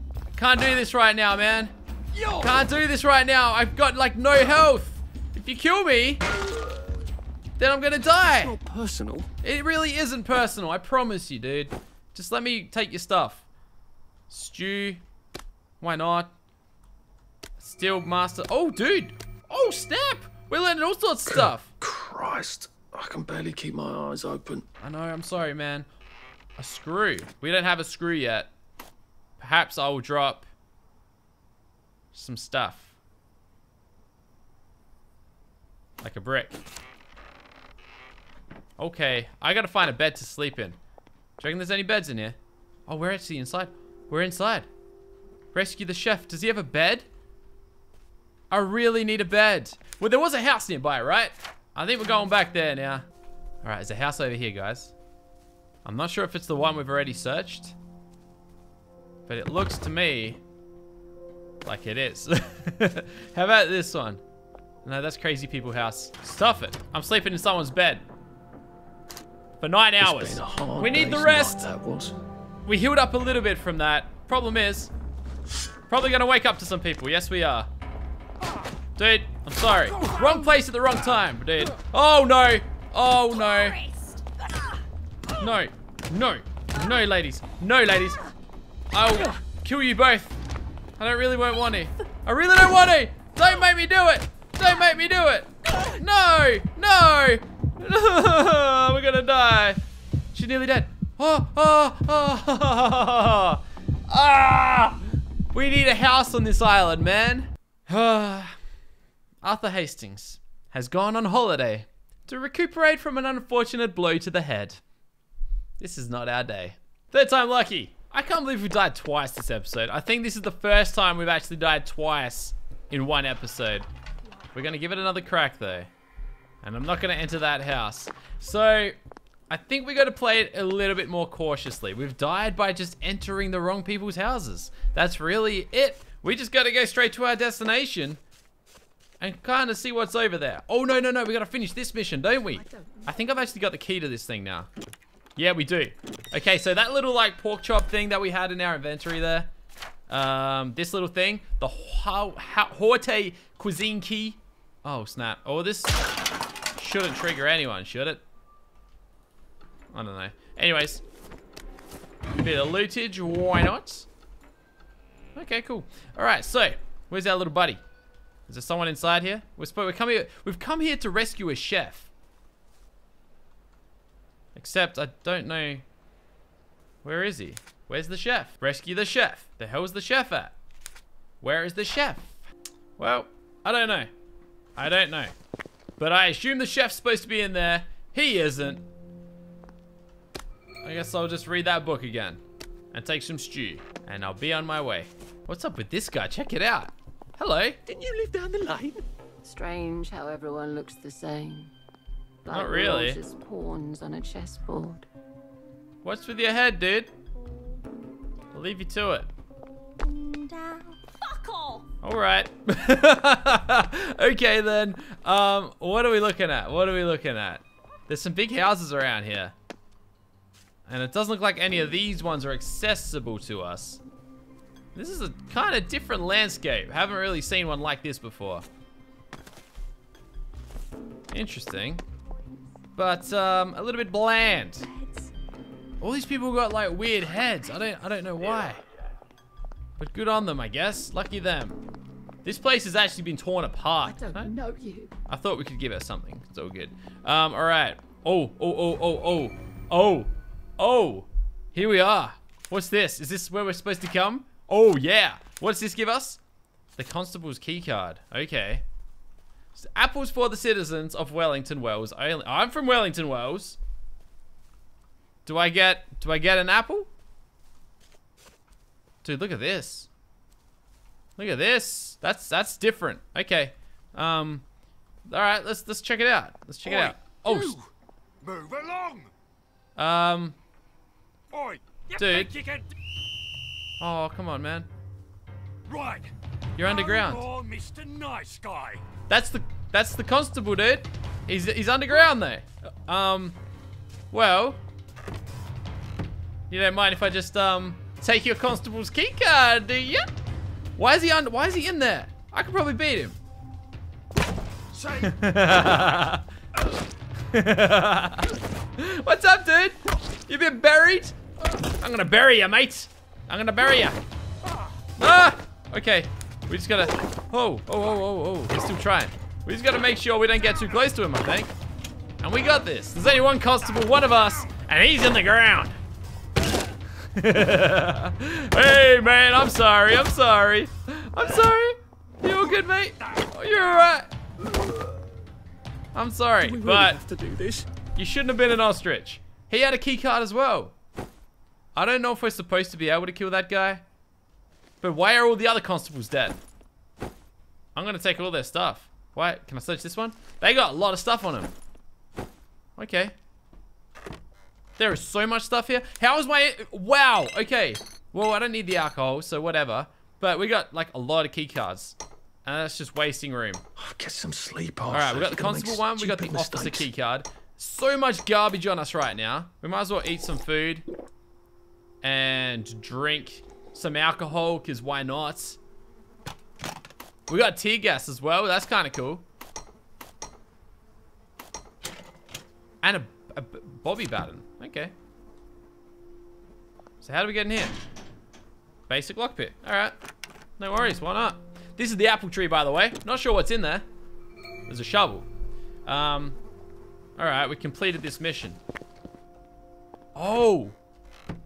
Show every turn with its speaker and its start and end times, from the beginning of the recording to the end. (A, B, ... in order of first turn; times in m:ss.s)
0:00.3-0:01.7 A
0:02.3-0:06.2 A
0:07.6-0:08.6 A
0:08.2-0:09.3 B
0:09.4-0:13.4 A
0:14.3-0:15.0 A
0:15.8-0:16.3 A
0:17.6-0:21.7 A
0:21.3-0:24.6 B
0:24.8-0:25.9 A
0:26.6-0:28.5 A
0:29.4-0:30.5 A
0:32.1-0:32.9 A
0:36.0-0:36.6 A
0:38.8-0:40.8 A
0:41.4-0:44.7 A
0:45.5-0:47.0 A
0:48.5-0:53.0 A
0:53.6-0:54.9 A
0:55.8-0:57.8 A
0:59.3-1:00.4 A
1:01.6-1:04.2 A
1:04.8-1:08.0 A
1:09.6-1:11.7 A
1:10.0-1:12.2 B
1:12.6-1:14.9 A
1:15.9-1:17.7 A
1:19.0-1:23.8 A
1:23.5-1:24.8 C
1:25.3-1:28.2 A
1:28.9-1:30.4 A
1:31.0-1:39.8 A
1:40.3-1:48.6 A
1:49.4-1:54.8 A
1:55.8-2:03.9 A
2:04.5-2:05.9 A
2:06.6-2:09.0 A
2:09.5-2:18.2 A
2:19.2-2:24.7 A
2:22.4-2:23.1 C
2:25.4-2:29.5 A
2:30.1-2:36.0 A
2:36.8-2:38.2 A
2:39.9-2:41.0 A
2:42.4-2:44.1 A
2:45.3-2:47.8 A
2:48.5-2:52.1 A
2:54.5-2:55.8 A
2:57.0-3:00.5 A
3:01.4-3:02.4 A
3:03.0-3:04.1 A
3:04.8-3:05.3 A
3:06.0-3:08.8 A
3:10.8-3:12.4 A
3:12.9-3:17.8 A
3:17.8-3:19.0 B
3:19.4-3:21.7 C
3:22.4-3:25.1 C
3:22.5-3:23.2 A
3:26.0-3:27.1 A
3:28.5-3:29.3 A
3:30.0-3:31.8 C
3:32.0-3:39.5 A
3:40.9-3:44.0 A
3:44.9-3:48.6 A
3:51.3-3:52.0 A
3:53.0-3:54.9 A
3:54.9-3:55.3 C
3:56.0-3:58.8 A
4:00.0-4:01.8 A
4:02.4-4:04.5 A
4:04.0-4:05.1 C
4:05.3-4:16.4 A
4:17.0-4:18.8 A
4:19.7-4:23.8 A
4:25.4-4:27.1 A
4:29.2-4:30.1 A
4:31.4-4:34.6 A
4:35.3-4:37.8 A
4:36.9-4:37.9 B
4:38.5-4:39.2 B
4:38.6-4:38.9 D
4:40.0-4:40.6 A
4:41.6-4:42.9 D
4:42.1-4:42.6 A
4:44.0-4:44.9 A
4:45.9-4:46.3 D
4:46.8-4:47.4 A
4:47.4-4:49.0 D
4:49.3-4:53.6 A
4:54.3-4:54.8 A
4:56.7-5:00.2 A
5:01.0-5:03.4 A
5:05.0-5:06.4 A
5:07.5-5:14.2 A
5:15.2-5:21.7 A
5:22.4-5:25.9 A
5:27.3-5:34.3 A
5:36.1-5:37.2 A
5:36.6-5:37.9 B
5:38.1-5:40.9 A
5:41.9-5:44.0 A
5:45.0-5:46.6 A
5:47.9-5:51.7 A
5:53.0-5:53.3 A
5:55.0-6:03.8 A
6:04.0-6:07.1 B
6:05.1-6:11.0 A
6:12.2-6:15.8 A
6:17.5-6:19.4 A
6:23.0-6:25.1 A
6:27.2-6:28.0 A
6:29.1-6:30.1 A
6:30.8-6:34.0 A
6:34.9-6:35.5 A
6:36.0-6:36.6 A
6:37.4-6:38.8 A
6:40.4-6:41.0 A